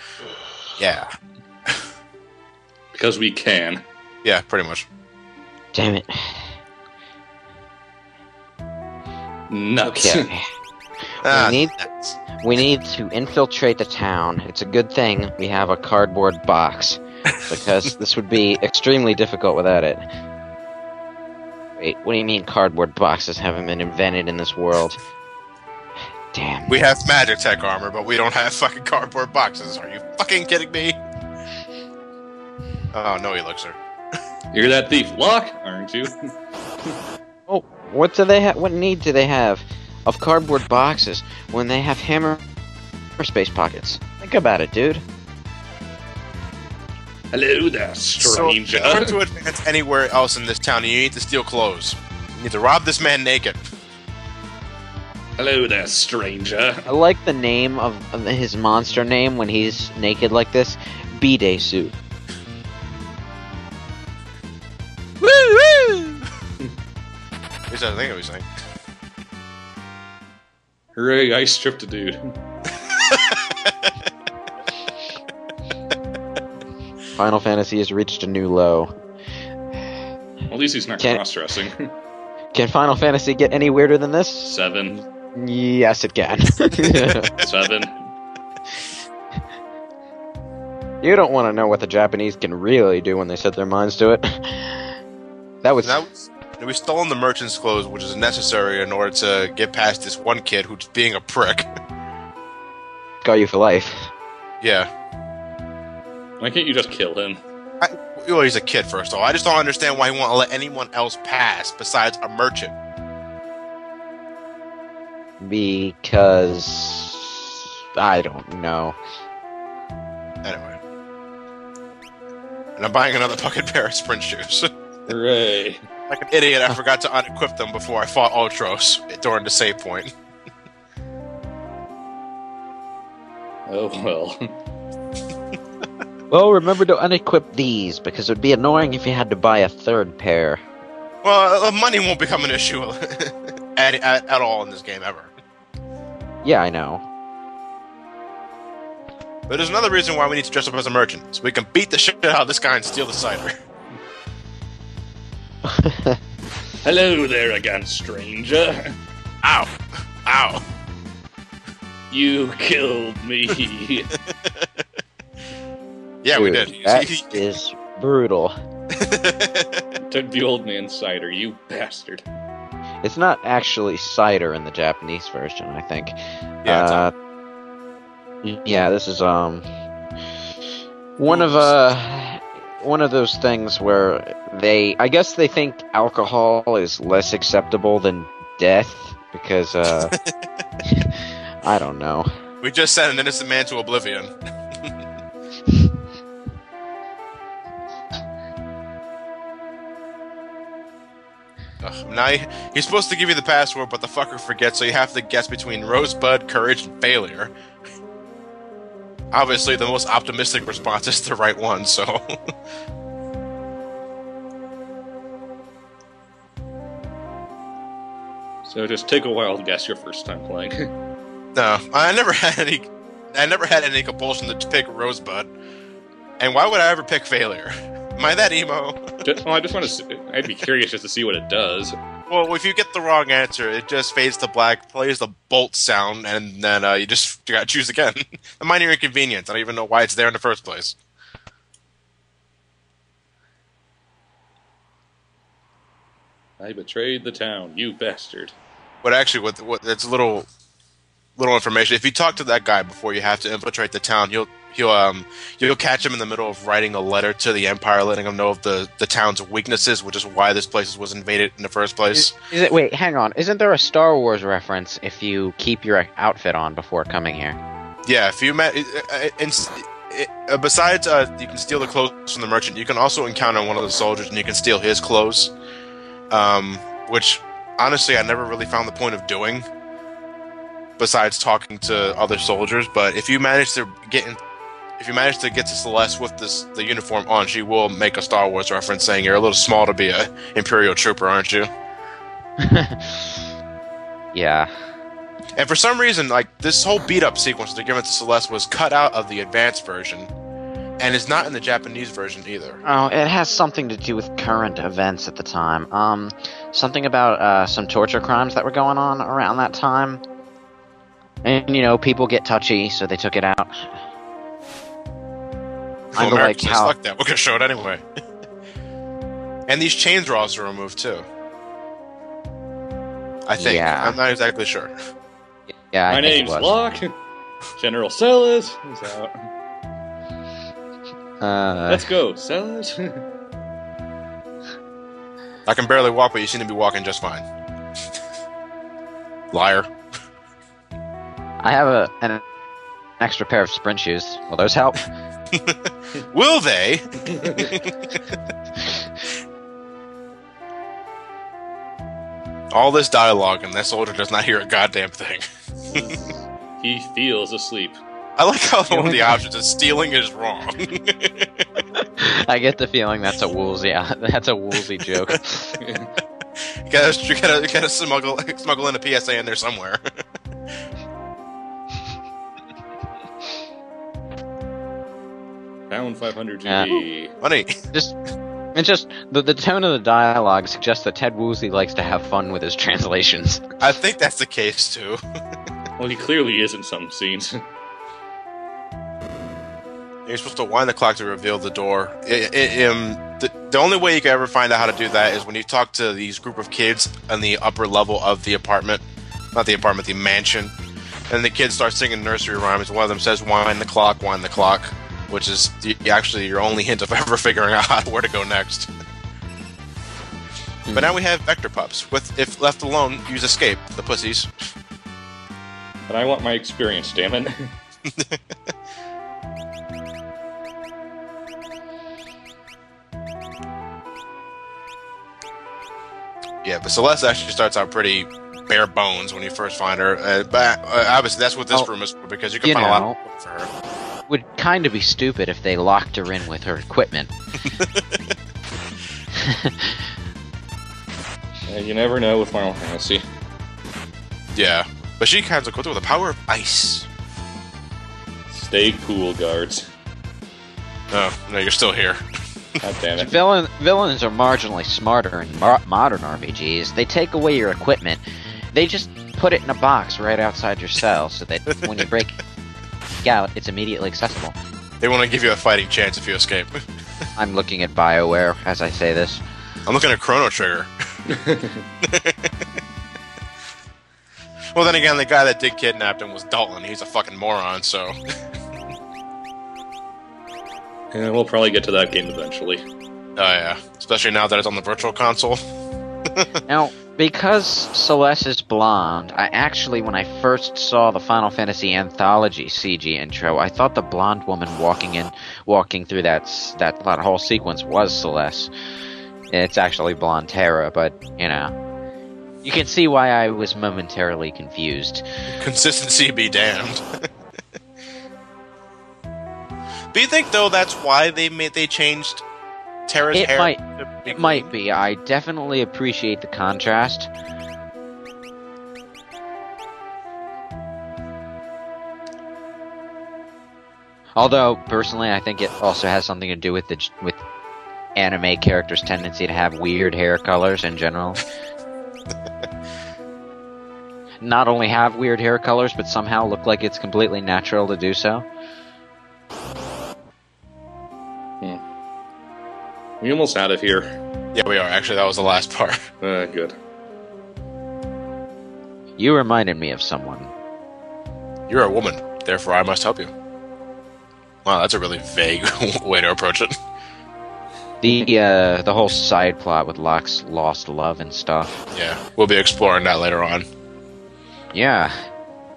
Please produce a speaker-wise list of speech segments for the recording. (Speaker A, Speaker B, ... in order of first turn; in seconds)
Speaker A: 0.8-1.1, 4.2-4.9, 11.2-12.2, 26.7-31.0, 32.9-33.8, 48.2-53.6, 65.2-66.2, 67.7-68.5, 73.1-73.8, 95.8-101.7, 104.6-104.9, 107.8-112.7, 120.4-120.8, 122.8-124.7, 126.1-130.1, 141.2-145.3, 149.5-153.5, 159.4-159.7, 160.2-160.6, 164.3-164.7, 166.2-167.4, 169.0-169.8, 176.6-177.1, 181.3-181.7, 192.6-194.3, 201.8-207.5, 209.3-212.2, 221.6-225.5, 226.4-229.0, 232.3-241.0, 249.0-250.5, 251.4-262.4, 268.1-275.5, 276.3-279.7, 281.0-284.4, 285.0-291.7, 295.6-300.3, 301.0-302.8, 316.1-318.0, 319.7-321.3, 323.5-324.9, 335.7-337.4, 339.5-339.9, 346.3-347.9, 352.7-355.4, 358.4-361.7, 366.9-370.0, 377.4-377.8, 383.8-385.2, 390.3-400.7, 401.3-408.9, 410.9-414.5, 418.1-418.4, 426.6-433.7, 437.8-438.1, 444.5-447.1, 451.1-452.2, 465.0-466.8, 469.9-470.9, 472.0-472.5, 474.8-478.2, 483.4-485.6, 505.6-507.0, 510.1-512.5, 513.1-514.7, 544.5-546.0, 551.7-553.3, 554.6-556.7, 561.9-563.7
Speaker B: 2.9-3.8, 9.5-10.3, 34.5-36.2, 47.3-49.1, 55.4-56.9, 71.0-72.2, 80.5-81.9, 84.4-85.0, 87.4-88.0, 106.4-107.4, 125.1-125.8, 133.7-134.4, 156.8-158.9, 162.1-164.1, 170.1-172.2, 218.7-220.9, 229.2-232.0, 246.6-248.6, 326.1-327.1, 327.8-329.4, 331.9-333.2, 347.3-347.7, 355.9-358.0, 365.8-366.1, 375.9-377.3, 386.0-387.5, 416.1-417.5, 441.7-443.2, 448.5-449.9, 452.8-453.3, 471.3-471.8, 481.1-482.8, 543.2-544.2, 546.2-546.8
Speaker C: 5.7-6.5, 9.8-10.4, 11.2-11.8, 12.4-20.1, 21.8-25.0, 26.3-26.8, 37.5-42.4, 43.2-45.0, 56.9-62.0, 77.2-78.9, 82.5-84.5, 85.4-87.3, 91.0-94.9, 95.6-96.0, 103.2-104.1, 115.4-119.0, 136.3-140.6, 146.4-147.1, 155.7-156.2, 166.3-168.6, 173.0-177.1, 178.4-179.7, 181.2-190.1, 190.9-192.3, 262.1-267.6, 292.6-293.4, 294.3-294.7, 302.9-310.2, 311.4-313.9, 316.2-316.9, 323.6-324.2, 325.9-326.8, 331.4-332.1, 341.6-342.4, 343.2-345.1, 358.9-359.4, 362.2-365.8, 376.7-377.1, 378.8-383.6, 410.9-411.2, 432.6-433.2, 434.3-437.3, 439.4-440.0, 453.2-462.4, 463.2-464.6, 467.4-469.4, 486.7-498.7, 499.5-501.7, 502.6-505.2, 513.3-517.3, 524.4-527.4, 528.1-531.4, 534.4-538.5, 549.2-550.5, 558.0-561.8, 564.7-565.2